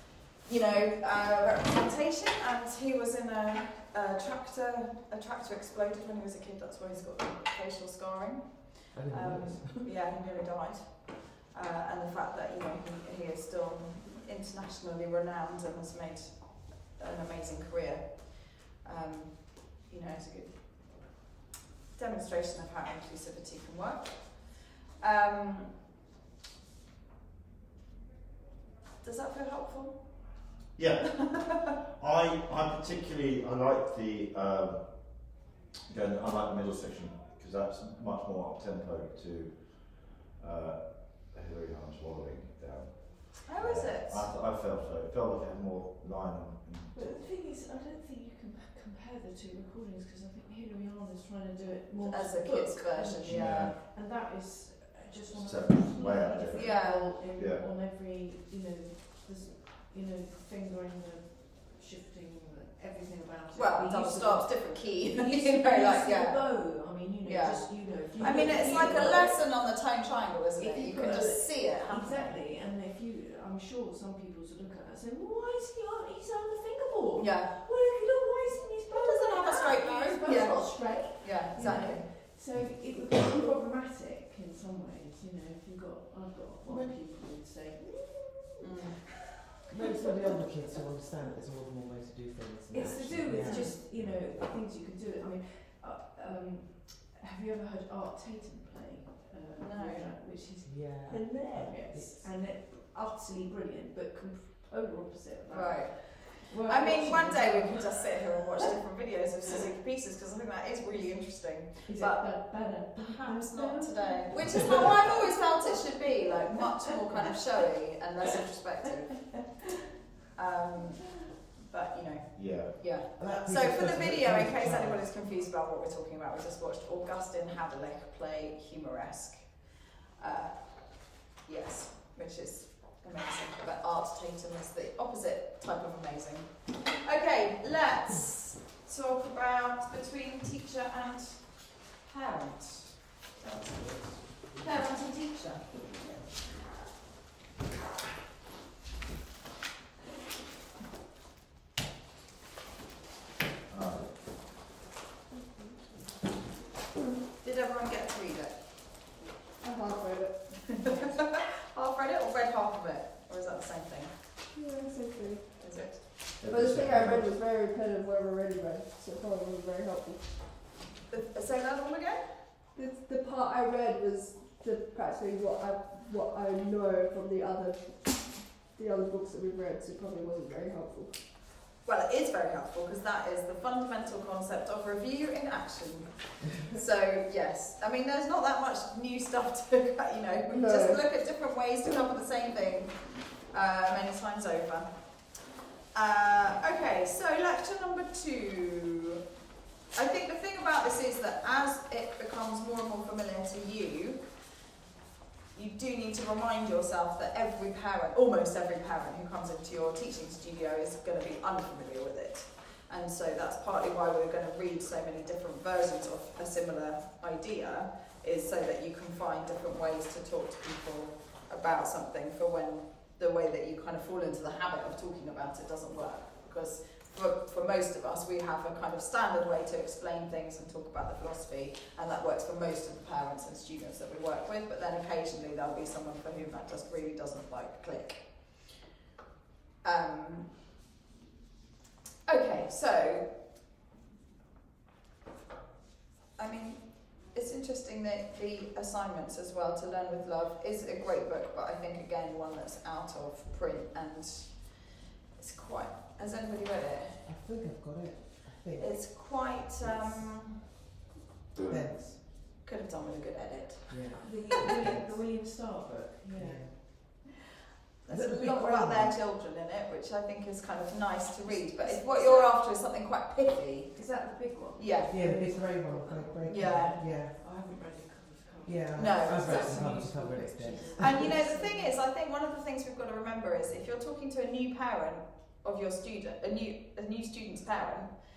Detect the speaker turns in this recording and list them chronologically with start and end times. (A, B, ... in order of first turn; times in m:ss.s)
0:00.4-0:21.1 A
0:08.9-0:09.8 B
0:22.0-0:25.7 A
0:29.0-0:30.2 A
0:30.8-0:47.2 C
0:43.5-0:44.3 A
0:46.9-1:09.4 D
0:52.0-0:53.7 A
0:53.2-0:53.7 C
0:55.3-0:57.6 C
0:56.5-0:57.1 A
1:03.5-1:12.4 A
1:08.2-1:09.3 C
1:10.6-1:28.9 D
1:17.2-1:17.5 A
1:18.9-1:22.0 A
1:21.6-1:21.9 B
1:26.6-1:27.0 B
1:28.6-1:29.0 A
1:29.7-1:33.8 B
1:29.9-1:30.5 D
1:32.7-1:48.1 D
1:33.4-1:33.7 A
1:33.9-1:34.2 C
1:39.6-1:40.1 A
1:40.6-1:42.3 B
1:45.5-1:59.5 A
1:51.9-1:56.4 D
2:00.3-2:09.6 A
2:02.3-2:02.8 C
2:03.1-2:05.1 B
2:10.2-2:26.6 A
2:33.7-2:34.3 C
2:35.3-2:35.8 E
2:37.4-2:38.6 A
2:39.6-2:41.2 E
2:40.6-2:44.1 A
2:44.5-2:50.6 E
2:45.6-2:46.0 A
2:46.4-2:47.3 C
2:51.1-2:52.2 A
2:52.7-3:01.2 E
3:01.8-3:14.9 A
3:10.5-3:11.0 E
3:15.9-3:19.2 A
3:19.9-3:24.2 A
3:25.5-3:58.7 A
3:59.8-4:00.5 A
4:02.2-4:03.3 A
4:06.4-4:17.2 A
4:17.2-4:19.2 B
4:18.8-4:20.6 A
4:21.6-4:22.2 B
4:22.6-4:24.4 A
4:23.9-4:25.2 B
4:24.2-4:26.9 D
4:26.3-4:27.2 B
4:28.0-4:34.0 A
4:28.1-4:29.1 B
4:31.4-4:32.5 D
4:33.9-4:41.9 D
4:34.8-4:35.1 A
4:35.1-4:37.4 B
4:36.5-4:36.9 A
4:38.6-4:41.4 B
4:39.0-4:40.0 A
4:41.0-4:48.1 A